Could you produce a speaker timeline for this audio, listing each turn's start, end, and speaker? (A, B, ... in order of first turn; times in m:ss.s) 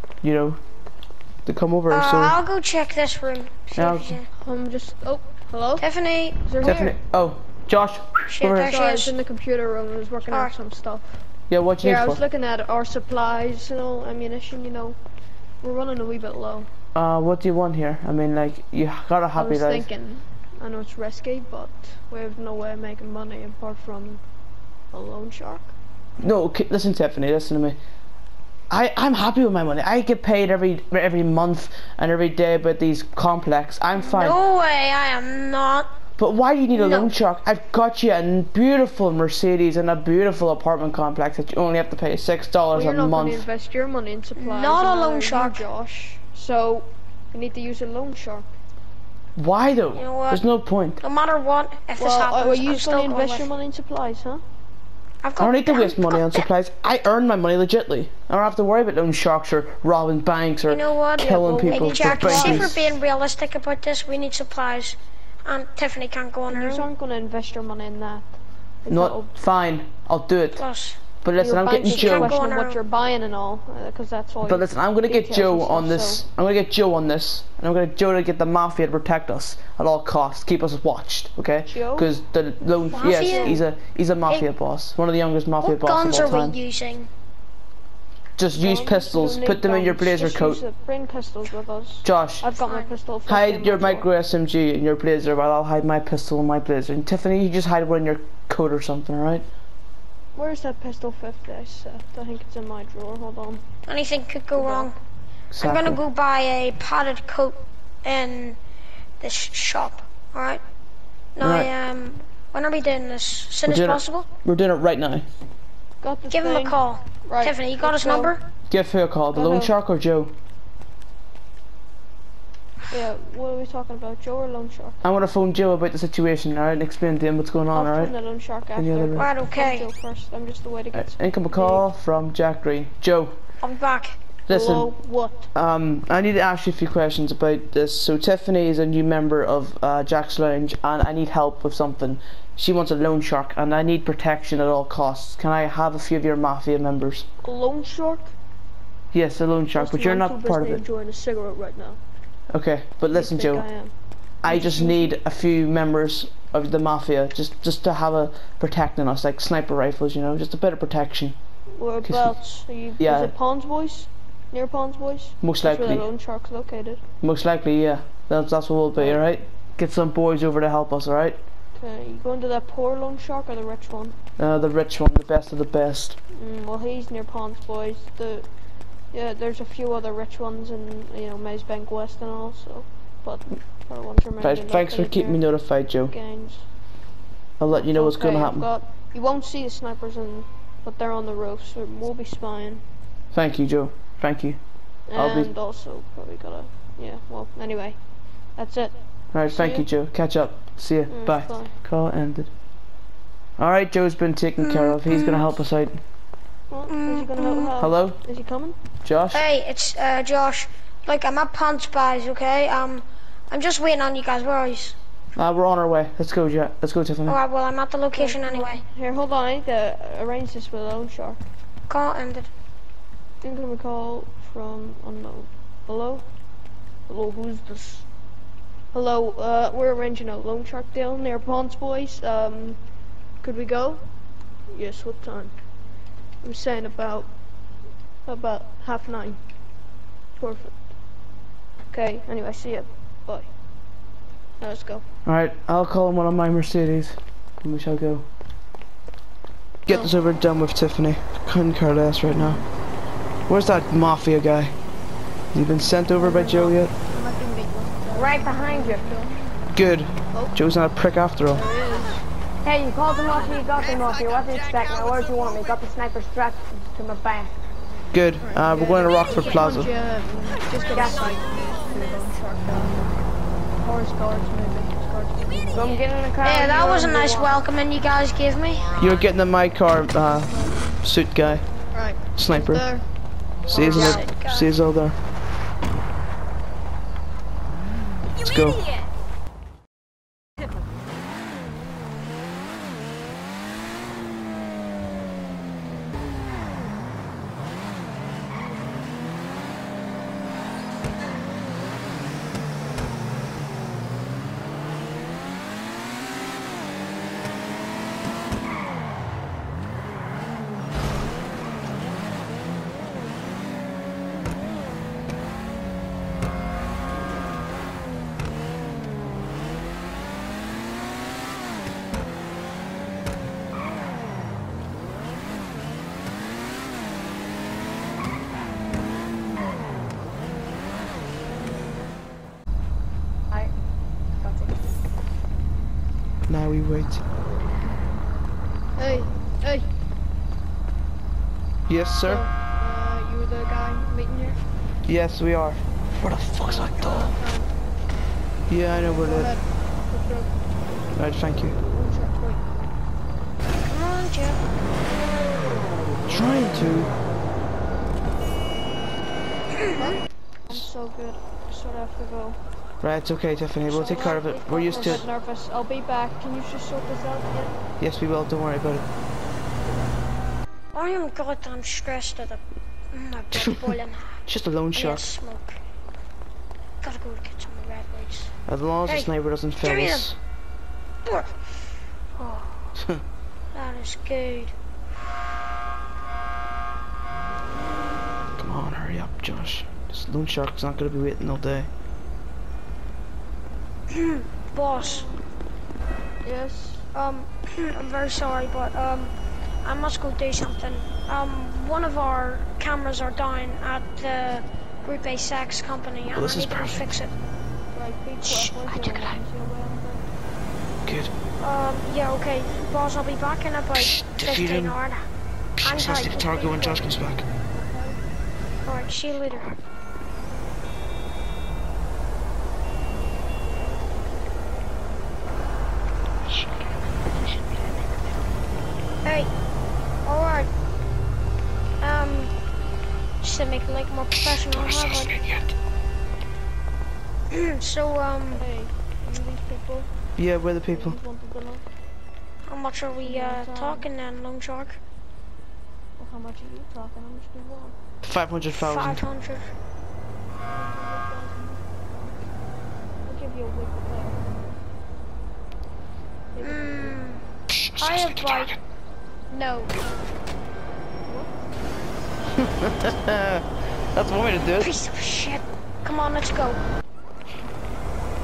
0:00.2-0:00.6 A
0:01.4-0:02.4 A
0:01.9-0:04.3 B
0:03.8-0:04.2 A
0:04.4-0:05.8 C
0:05.8-0:06.4 B
0:06.4-0:07.0 C
0:06.6-0:08.7 A
0:08.3-0:09.1 B
0:08.6-0:11.2 C
0:10.3-0:10.5 B
0:11.5-0:12.2 A
0:11.8-0:15.0 C
0:15.6-0:16.7 C
0:17.0-0:19.9 A
0:19.4-0:24.2 C
0:24.9-0:25.7 C
0:26.2-0:27.8 A
0:28.7-0:34.4 A
0:34.0-0:35.9 B
0:36.2-0:43.4 A
0:36.7-0:37.1 B
0:42.7-0:48.5 C
0:44.4-0:45.7 B
0:49.4-0:51.0 A
0:50.0-0:50.4 B
0:51.0-0:53.5 B
0:52.0-0:54.4 C
0:55.2-0:56.5 B
0:55.4-1:02.9 A
1:00.7-1:06.9 B
1:01.2-1:02.8 C
1:06.5-1:08.3 C
1:08.8-1:09.3 C
1:08.9-1:10.6 A
1:10.6-1:11.0 B
1:11.2-1:12.4 A
1:11.4-1:16.2 C
1:11.9-1:12.8 B
1:14.4-1:26.6 A
1:21.7-1:22.1 C
1:22.9-1:23.6 B
1:23.2-1:23.6 C
1:25.6-1:27.1 B
1:28.4-1:30.6 A
1:28.6-1:34.1 C
1:32.0-1:32.4 A
1:32.6-1:32.9 B
1:33.3-1:39.5 A
1:40.4-1:43.6 C
1:43.9-1:45.0 B
1:44.6-1:44.9 C
1:45.5-1:46.0 A
1:45.6-1:48.6 B
1:49.2-1:50.6 B
1:51.4-1:54.3 B
1:51.4-1:51.7 A
1:53.7-1:55.2 A
1:56.0-1:58.3 C
1:56.3-1:58.4 B
1:58.7-2:00.3 A
1:59.3-1:59.7 C
2:02.9-2:05.0 C
2:05.0-2:08.1 A
2:07.7-2:11.8 C
2:08.8-2:09.3 A
2:09.2-2:09.9 B
2:10.9-2:13.4 A
2:13.6-2:14.2 B
2:14.5-2:14.9 A
2:14.5-2:15.4 C
2:15.5-2:27.3 A
2:27.4-2:28.3 C
2:29.1-2:30.8 A
2:29.8-2:32.0 C
2:32.5-2:33.7 A
2:33.1-2:33.9 C
2:34.4-2:41.4 A
2:34.4-2:35.2 C
2:41.8-2:47.0 C
2:42.0-2:42.3 A
2:43.0-2:43.3 A
2:45.4-2:46.1 A
2:47.2-2:51.4 A
2:49.0-2:49.2 C
2:51.8-2:54.2 C
2:54.4-2:56.2 A
2:56.4-2:58.5 C
2:59.1-3:05.4 C
3:04.4-3:06.1 A
3:06.1-3:06.6 C
3:07.6-3:08.7 A
3:07.7-3:12.8 C
3:13.3-3:14.6 A
3:15.1-3:18.0 C
3:15.1-3:15.5 A
3:18.6-3:19.0 C
3:19.3-3:22.5 A
3:19.5-3:19.9 C
3:21.1-3:21.7 C
3:23.6-3:26.0 A
3:24.6-3:25.5 B
3:26.7-3:28.8 C
3:26.9-3:27.8 B
3:27.8-3:28.2 A
3:29.0-3:29.4 A
3:29.3-3:35.0 B
3:35.4-3:37.4 A
3:37.3-3:38.8 B
3:38.1-3:41.4 C
3:41.9-3:42.5 B
3:43.4-3:46.2 C
3:47.1-3:48.1 C
3:48.9-3:52.8 C
3:53.4-3:54.0 C
3:54.7-3:55.5 C
3:56.4-3:57.3 C
3:58.3-3:59.4 C
4:00.4-4:00.8 C
4:01.9-4:03.5 C
4:04.6-4:05.0 C
4:05.3-4:08.3 A
4:09.9-4:12.6 A
4:13.5-4:14.7 A
4:15.5-4:16.9 A
4:16.2-4:19.4 C
4:18.1-4:19.0 D
4:19.8-4:21.6 A
4:21.5-4:22.2 C
4:22.6-4:27.6 D
4:28.1-4:29.9 A
4:28.4-4:33.1 C
4:30.9-4:31.4 D
4:33.8-4:36.0 C
4:35.7-4:37.6 D
4:36.4-4:39.0 B
4:39.0-4:41.6 A
4:41.9-4:43.1 C
4:42.4-4:42.9 A
4:43.6-4:45.2 A
4:43.7-4:44.7 B
4:43.7-4:44.2 C
4:48.4-4:48.9 A
5:34.4-5:34.8 D
5:36.5-5:37.2 A
5:39.0-5:39.9 C
5:41.9-5:42.4 A
5:42.2-5:44.6 C
5:45.1-5:47.3 A
5:46.6-5:47.7 C
5:48.7-5:49.5 A
5:49.2-5:50.5 C
5:51.2-5:51.8 A
5:51.9-5:52.7 C
5:53.8-5:54.6 B
5:56.3-5:57.1 A
5:59.8-6:00.2 B
6:00.0-6:02.6 C
6:03.0-6:05.3 A
6:03.9-6:05.2 B
6:04.0-6:07.8 C
6:08.0-6:09.0 A
6:10.9-6:12.6 B
6:13.1-6:14.4 B
6:13.6-6:13.9 A
6:14.5-6:15.3 A
6:14.9-6:15.8 B
6:17.0-6:18.5 B
6:18.7-6:20.4 A
6:19.0-6:19.3 B
6:19.8-6:20.3 B
6:21.2-6:21.5 B
6:22.4-6:22.9 B
6:23.0-6:23.2 A
6:23.7-6:24.7 B
6:28.6-6:31.9 A
6:34.1-6:35.3 B
6:35.0-6:35.4 C
6:36.4-6:37.1 C
6:37.1-6:47.3 B
6:46.3-6:47.1 A
6:47.9-6:50.3 C
6:48.4-6:48.7 B
6:48.9-6:49.3 A
6:51.0-6:51.3 A
6:51.6-6:55.2 B
6:53.9-6:55.0 A
6:55.8-6:57.5 A
6:55.8-6:57.0 B
6:57.7-6:58.2 C
6:58.8-6:59.8 B
7:09.2-7:09.5 B
7:10.2-7:10.7 B
7:12.0-7:12.5 B
7:13.4-7:15.5 B
7:14.8-7:15.6 A
7:17.5-7:18.6 B
7:18.6-7:20.1 C
7:20.4-7:21.2 A
7:20.9-7:21.9 C
7:22.7-7:25.0 B
7:23.2-7:24.1 C
7:26.2-7:28.0 C
7:28.2-7:29.2 A
7:28.7-7:29.7 B
7:30.7-7:31.8 C
7:33.2-7:34.5 C
7:36.5-7:37.2 C
7:36.6-7:37.4 B
7:37.8-7:38.8 A
7:38.0-7:38.8 B
7:39.5-7:40.0 B
7:41.2-7:41.5 C
7:42.6-7:44.9 A
7:44.6-7:46.8 B